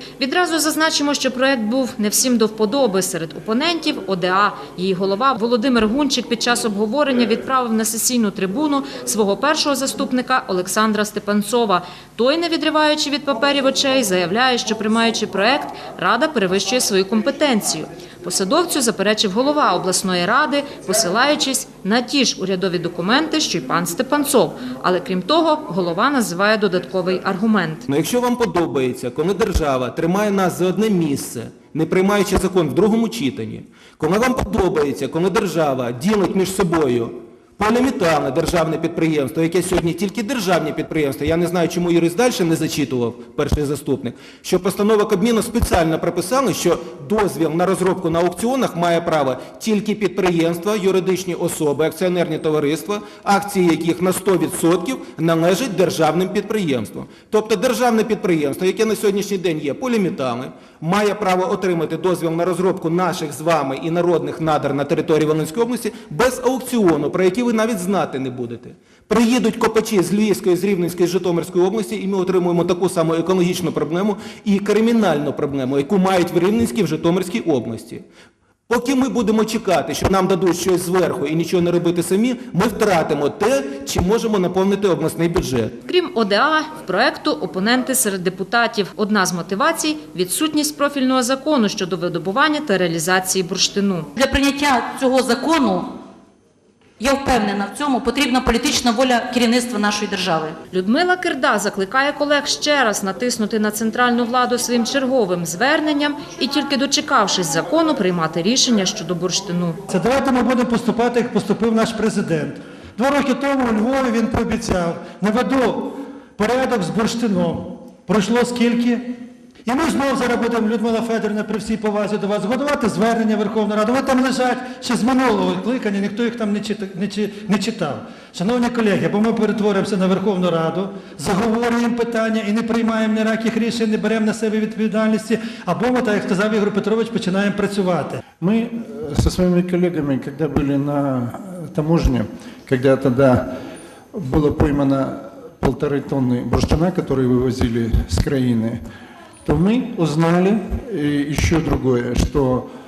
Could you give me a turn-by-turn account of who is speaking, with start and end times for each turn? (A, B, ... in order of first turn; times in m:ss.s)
0:00.2-0:27.8 A
0:27.9-1:18.0 B
1:18.7-1:25.7 B
1:25.8-1:34.1 A
1:34.2-1:35.9 C
1:37.0-1:40.6 C
1:40.7-1:49.8 A
1:49.9-1:59.1 D
1:59.7-2:18.2 D
2:18.4-2:23.6 E
2:24.1-2:28.8 E
2:29.4-2:32.7 E